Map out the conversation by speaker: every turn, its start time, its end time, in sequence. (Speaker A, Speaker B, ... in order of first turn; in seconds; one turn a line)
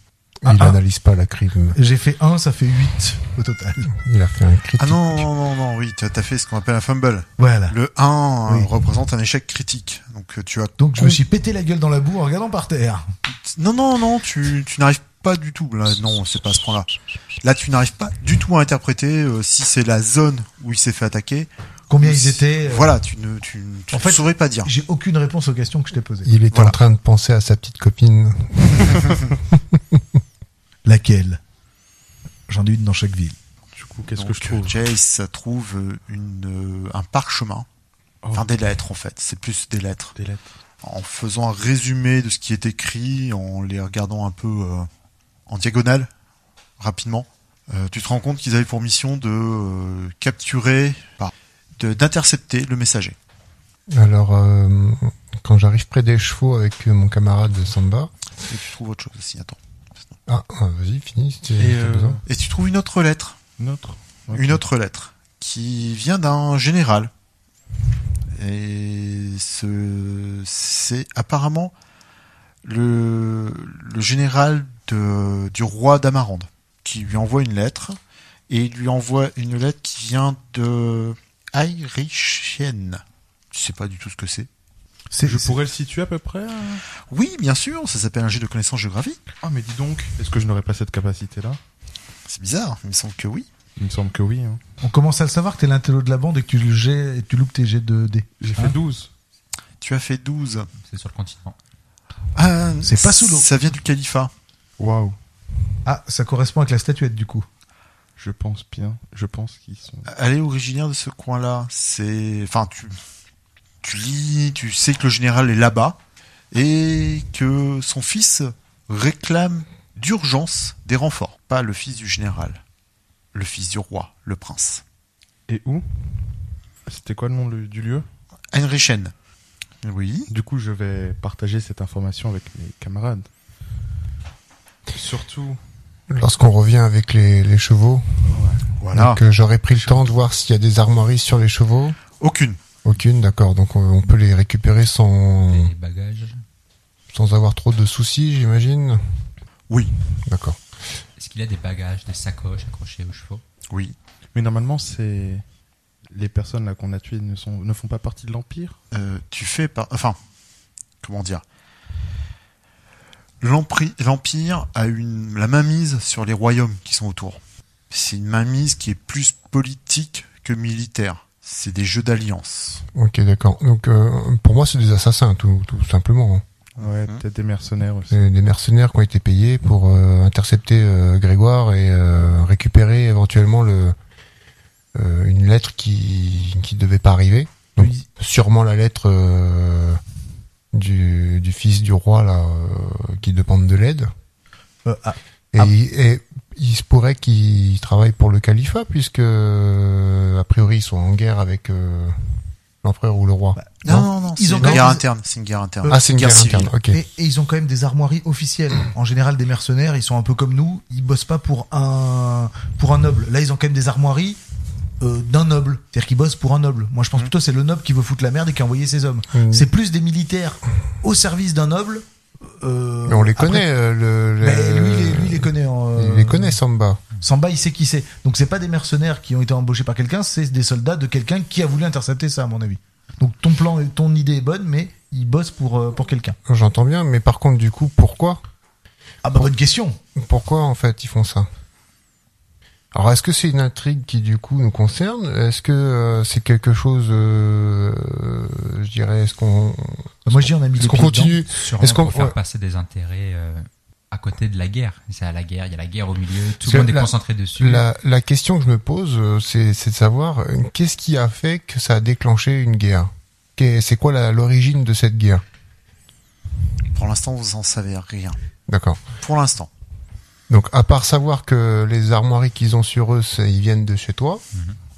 Speaker A: 0.4-1.8
Speaker B: 0.4-0.8
Speaker B: 1.7-3.9
Speaker A: 3.9-5.3
Speaker C: 4.8-11.2
Speaker B: 7.4-7.8
Speaker B: 10.8-13.1
Speaker C: 13.5-21.5
Speaker B: 21.9-22.9
Speaker C: 22.0-24.7
Speaker B: 23.9-26.3
Speaker A: 26.2-30.0
Speaker C: 26.5-26.8
Speaker B: 30.9-31.4
Speaker B: 32.5-33.4
Speaker D: 33.7-34.8
Speaker C: 34.1-37.7
Speaker C: 38.3-40.1
Speaker D: 40.2-40.5
Speaker C: 40.8-44.9
Speaker C: 45.5-46.1
Speaker C: 46.8-53.2
Speaker A: 53.9-58.1
Speaker C: 58.5-60.2
Speaker A: 60.3-62.2
Speaker D: 61.6-62.2
Speaker C: 62.3-63.4
Speaker D: 63.6-64.6
Speaker C: 64.3-67.1
Speaker C: 68.3-71.7
Speaker C: 72.6-78.0
Speaker C: 78.5-83.0
Speaker C: 83.5-84.5
Speaker B: 85.1-85.5
Speaker D: 85.2-86.8
Speaker C: 87.1-89.2
Speaker D: 89.4-91.6
Speaker C: 92.3-93.5
Speaker D: 93.8-94.6
Speaker B: 94.8-98.8
Speaker D: 98.4-99.1
Speaker C: 99.8-100.7
Speaker E: 100.8-101.6
Speaker C: 102.4-104.3
Speaker B: 102.8-103.5
Speaker D: 104.8-105.2
Speaker B: 105.8-107.5
Speaker D: 108.2-110.1
Speaker C: 110.1-113.0
Speaker C: 113.8-116.0
Speaker C: 116.5-122.6
Speaker C: 123.3-124.8
Speaker D: 125.5-126.0
Speaker D: 126.9-128.1
Speaker C: 128.5-129.1
Speaker C: 129.8-130.3
Speaker D: 130.3-133.3
Speaker D: 134.9-135.6
Speaker A: 136.1-138.3
Speaker D: 138.3-138.7
Speaker C: 138.8-139.2
Speaker A: 138.9-142.0
Speaker C: 142.2-142.6
Speaker A: 142.8-145.7
Speaker E: 145.4-146.4
Speaker A: 147.1-149.0
Speaker A: 150.2-150.6
Speaker E: 151.2-153.4
Speaker C: 153.7-154.0
Speaker D: 154.3-155.4
Speaker D: 156.1-158.8
Speaker C: 158.9-160.2
Speaker C: 161.0-161.4
Speaker C: 163.4-167.4
Speaker C: 167.9-172.8
Speaker A: 172.9-176.4
Speaker D: 176.8-178.2
Speaker C: 176.8-177.2
Speaker A: 178.1-184.0
Speaker A: 184.9-190.0
Speaker B: 187.8-188.1
Speaker A: 190.7-194.1
Speaker B: 194.8-195.7
Speaker A: 195.5-205.0
Speaker B: 203.6-205.0
Speaker C: 203.8-206.7
Speaker A: 205.9-207.0
Speaker B: 206.9-214.4
Speaker B: 215.0-223.7
Speaker A: 219.3-219.7
Speaker A: 223.1-227.0
Speaker B: 224.4-226.6
Speaker B: 227.2-236.4
Speaker A: 236.5-238.4
Speaker B: 239.2-240.0
Speaker A: 240.2-241.5
Speaker A: 242.9-252.3
Speaker B: 250.3-251.4
Speaker E: 251.5-257.9
Speaker A: 256.6-265.4
Speaker C: 266.9-268.4
Speaker A: 268.7-269.0
Speaker C: 269.1-269.7
Speaker A: 270.5-274.4